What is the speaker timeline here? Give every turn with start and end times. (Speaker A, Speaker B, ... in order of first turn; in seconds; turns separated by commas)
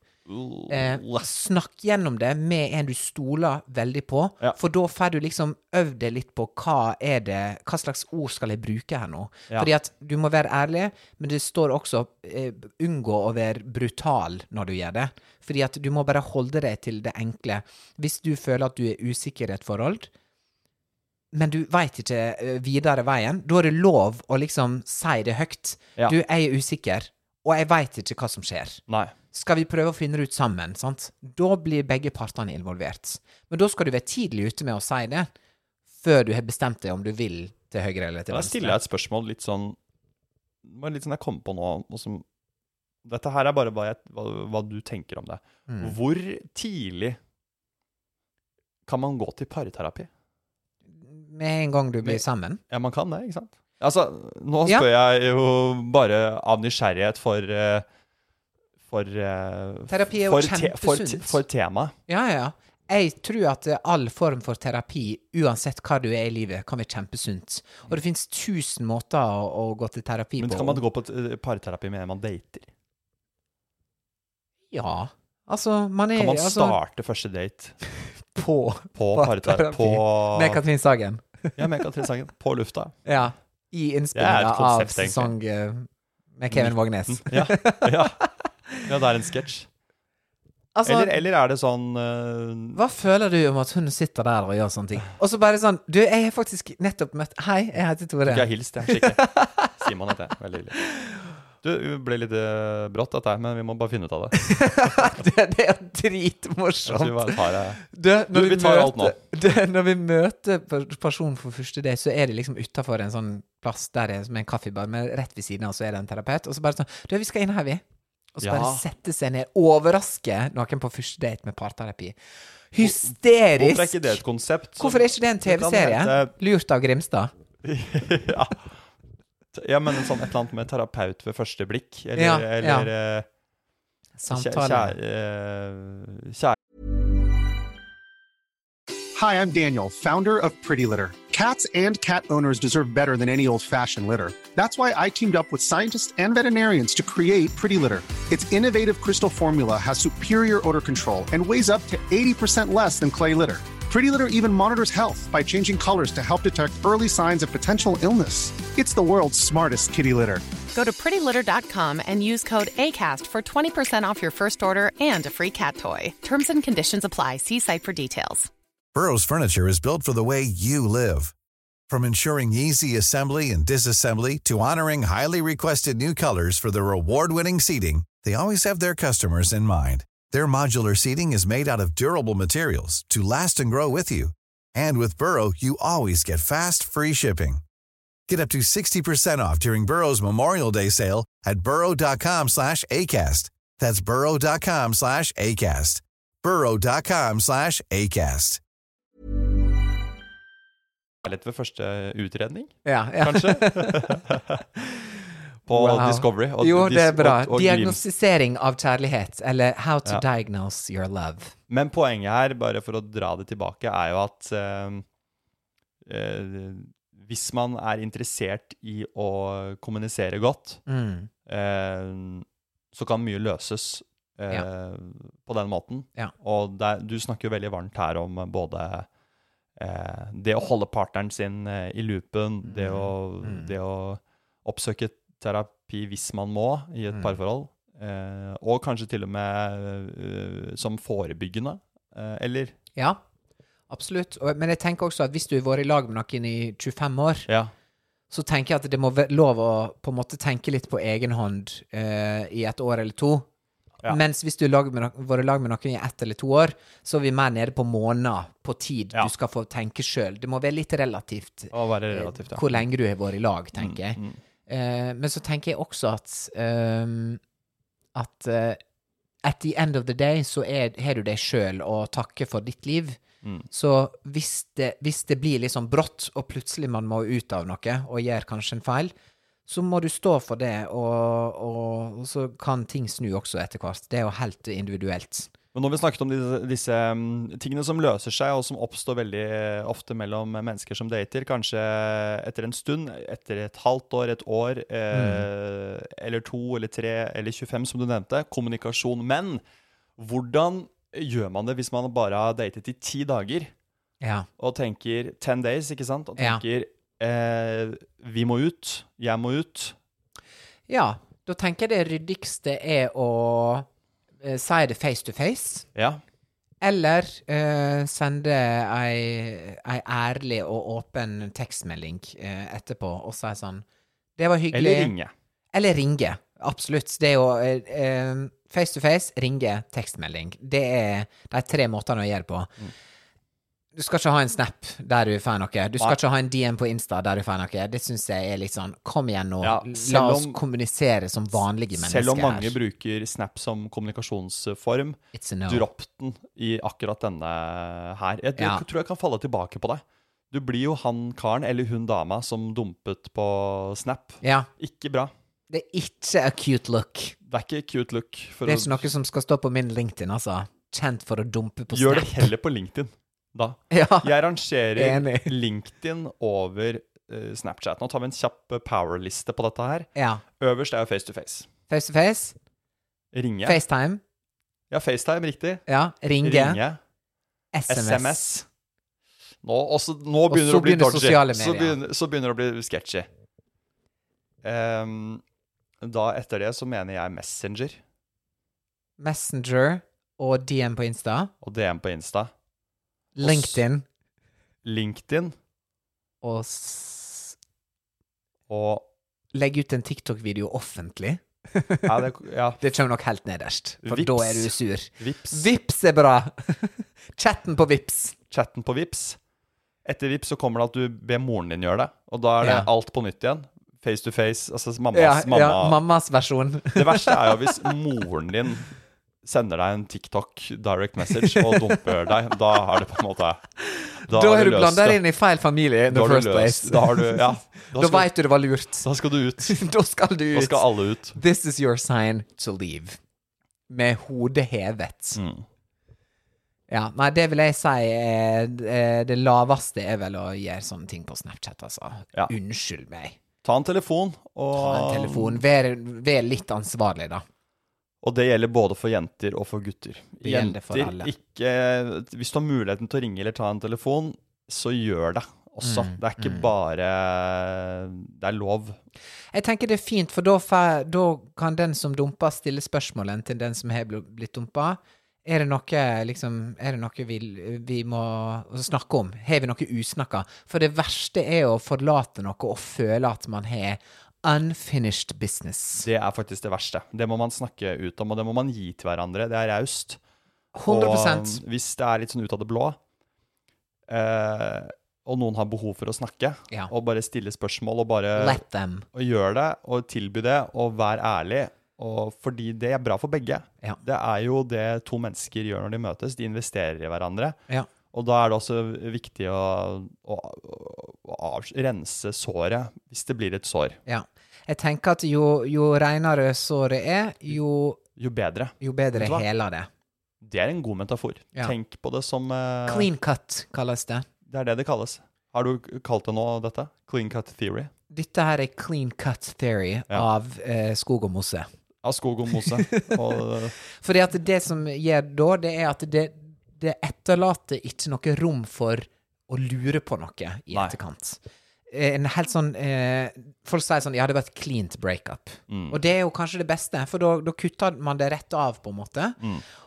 Speaker A: 0.3-1.2, Speaker B: 0.7-20.1, Speaker B: 21.3-35.3, Speaker A: 28.9-29.1, Speaker B: 36.0-38.8, Speaker A: 38.3-39.8, Speaker A: 40.6-42.2, Speaker A: 43.0-47.2, Speaker B: 45.7-46.0, Speaker A: 48.9-50.1, Speaker B: 51.0-52.6, Speaker A: 52.0-57.9, Speaker A: 58.9-61.9, Speaker B: 59.9-61.4, Speaker B: 62.1-70.8, Speaker A: 70.4-72.7, Speaker B: 74.7-76.8, Speaker A: 76.1-77.8, Speaker B: 78.3-81.6, Speaker A: 78.9-80.6, Speaker A: 81.6-83.0, Speaker B: 83.0-88.8, Speaker A: 84.1-85.3, Speaker A: 86.5-88.2, Speaker A: 88.8-89.7, Speaker B: 90.7-91.2, Speaker A: 90.8-92.8, Speaker B: 92.7-99.7, Speaker A: 98.2-99.2, Speaker A: 99.7-100.8, Speaker A: 101.6-105.1, Speaker B: 104.4-117.8, Speaker A: 106.8-109.2, Speaker B: 118.3-122.2, Speaker A: 118.4-118.8, Speaker B: 122.7-124.2, Speaker A: 122.8-126.3, Speaker B: 124.8-127.3, Speaker A: 127.6-128.7, Speaker A: 129.5-133.3, Speaker B: 132.2-132.9, Speaker B: 134.2-134.9, Speaker A: 134.3-136.6, Speaker C: 139.2-160.4, Speaker D: 160.7-168.5, Speaker E: 168.9-171.3, Speaker E: 171.9-187.6, Speaker E: 188.3-198.6, Speaker A: 201.2-204.6, Speaker B: 202.8-204.2, Speaker B: 204.8-205.1, Speaker A: 205.7-208.0, Speaker B: 205.7-211.5, Speaker A: 211.7-215.0, Speaker A: 216.0-220.8, Speaker B: 220.9-221.3, Speaker A: 221.4-229.1, Speaker A: 229.8-242.7, Speaker B: 232.6-233.7, Speaker B: 237.1-237.4, Speaker B: 243.9-247.5, Speaker A: 247.5-247.7, Speaker B: 248.3-253.5, Speaker B: 254.0-267.4, Speaker A: 261.7-262.8, Speaker A: 263.8-264.4, Speaker B: 268.1-268.8, Speaker B: 269.4-279.1, Speaker A: 273.4-273.7, Speaker B: 279.7-285.5, Speaker A: 285.7-299.6, Speaker B: 295.1-295.4, Speaker A: 300.2-303.7, Speaker B: 304.2-304.5, Speaker A: 304.6-309.9, Speaker B: 306.4-306.6, Speaker B: 310.9-313.9, Speaker B: 314.4-315.9, Speaker A: 315.9-316.2, Speaker B: 316.8-323.8, Speaker B: 324.4-325.1, Speaker A: 324.7-325.3, Speaker B: 325.7-332.7, Speaker B: 333.9-342.7, Speaker A: 339.6-340.6, Speaker A: 341.9-355.3, Speaker B: 345.3-345.9, Speaker B: 348.6-348.8, Speaker B: 354.4-354.7, Speaker B: 355.7-357.4, Speaker A: 357.4-359.1, Speaker B: 358.6-362.5, Speaker A: 361.9-370.1, Speaker B: 363.9-364.3, Speaker B: 364.9-365.5, Speaker B: 370.1-370.4, Speaker A: 370.6-371.7, Speaker B: 371.9-372.6, Speaker A: 373.3-373.8, Speaker B: 373.6-374.2, Speaker A: 374.9-375.8, Speaker B: 375.9-376.8, Speaker A: 376.4-377.0, Speaker B: 377.7-378.5, Speaker A: 377.9-378.6, Speaker A: 379.6-383.3, Speaker B: 380.5-382.0, Speaker A: 384.6-385.4, Speaker A: 386.0-388.0, Speaker B: 389.2-391.5, Speaker A: 391.6-392.5, Speaker B: 393.4-394.1, Speaker A: 393.4-393.8, Speaker A: 394.8-395.5, Speaker B: 396.4-397.6, Speaker A: 398.7-399.1, Speaker B: 399.5-402.3, Speaker A: 402.0-402.8, Speaker B: 402.8-408.3, Speaker A: 404.0-405.7, Speaker A: 408.5-409.4, Speaker A: 410.0-416.0, Speaker B: 412.6-412.9, Speaker B: 415.1-417.7, Speaker A: 416.9-418.9, Speaker A: 419.4-423.7, Speaker B: 421.4-421.9, Speaker B: 423.9-429.1, Speaker A: 424.2-425.2, Speaker A: 426.1-428.3, Speaker A: 429.0-429.8, Speaker B: 429.6-433.2, Speaker A: 430.5-431.4, Speaker B: 433.9-435.4, Speaker A: 435.3-435.6, Speaker B: 436.9-443.4, Speaker A: 443.6-445.6, Speaker B: 444.7-447.4, Speaker A: 448.2-459.0, Speaker B: 450.4-451.3, Speaker B: 455.8-456.7, Speaker B: 459.5-476.1, Speaker A: 476.0-480.2, Speaker B: 480.7-481.6, Speaker A: 480.9-483.0, Speaker A: 484.1-488.6, Speaker B: 488.3-489.1, Speaker A: 489.1-497.6, Speaker A: 498.1-504.0, Speaker B: 504.1-508.0, Speaker A: 508.2-509.4, Speaker B: 508.8-509.9, Speaker A: 510.4-513.1, Speaker B: 512.9-514.3, Speaker A: 514.5-517.9, Speaker B: 518.1-521.7, Speaker A: 522.0-523.8, Speaker B: 522.6-523.2, Speaker B: 523.9-539.4, Speaker A: 535.7-536.0